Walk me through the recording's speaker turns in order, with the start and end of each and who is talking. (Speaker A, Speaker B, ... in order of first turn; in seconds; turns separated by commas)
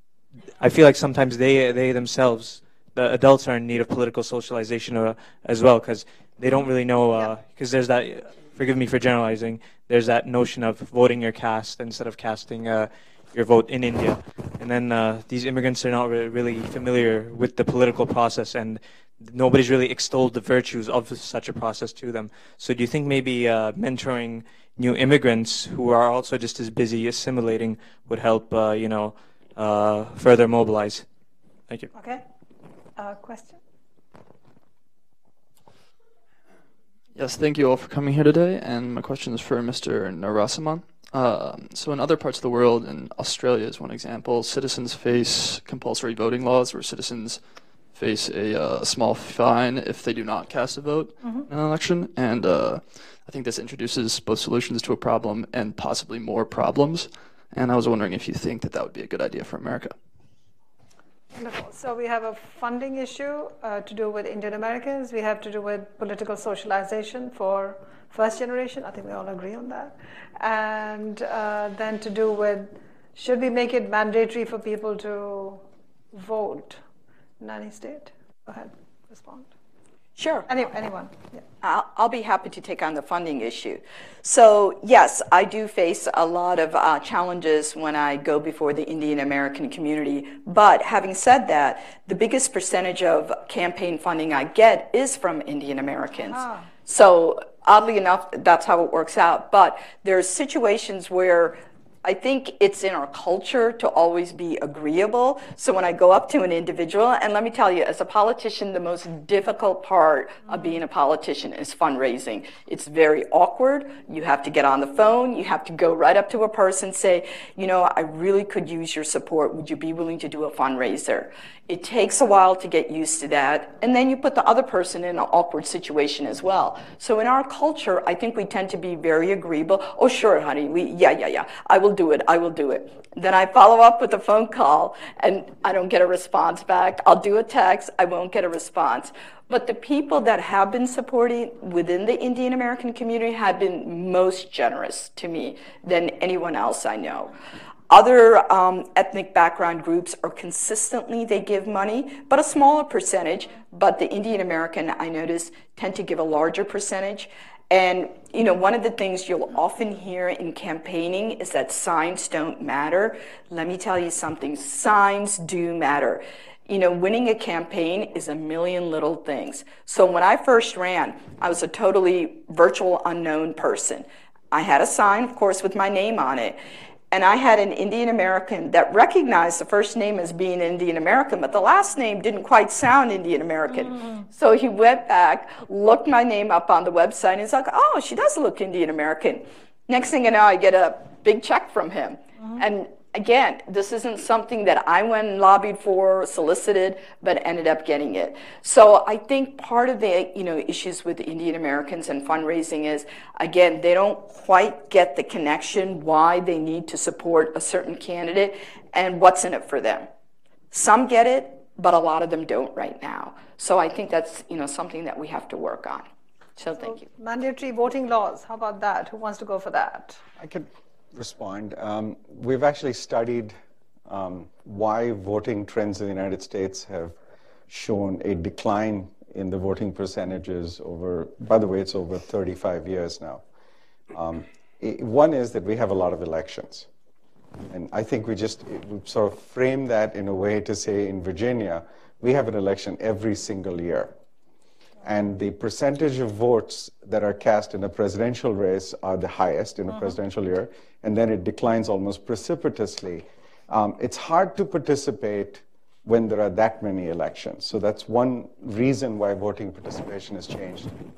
Speaker A: 0.6-31.1, Speaker B: 31.9-32.2, Speaker B: 33.0-33.6, Speaker C: 37.1-47.4, Speaker C: 48.0-60.0, Speaker B: 51.2-51.5, Speaker B: 61.3-75.6, Speaker B: 76.1-76.8, Speaker B: 77.4-79.5, Speaker D: 80.2-80.5, Speaker B: 80.5-81.4, Speaker D: 81.6-147.3, Speaker B: 96.3-96.7, Speaker B: 110.5-110.8, Speaker D: 147.9-176.6, Speaker D: 177.1-210.1, Speaker B: 183.7-184.3, Speaker D: 210.7-217.0, Speaker B: 216.8-220.2, Speaker E: 220.4-223.6, Speaker E: 224.1-227.2, Speaker E: 227.7-233.4, Speaker E: 234.1-236.9, Speaker E: 237.7-244.1, Speaker E: 245.0-260.9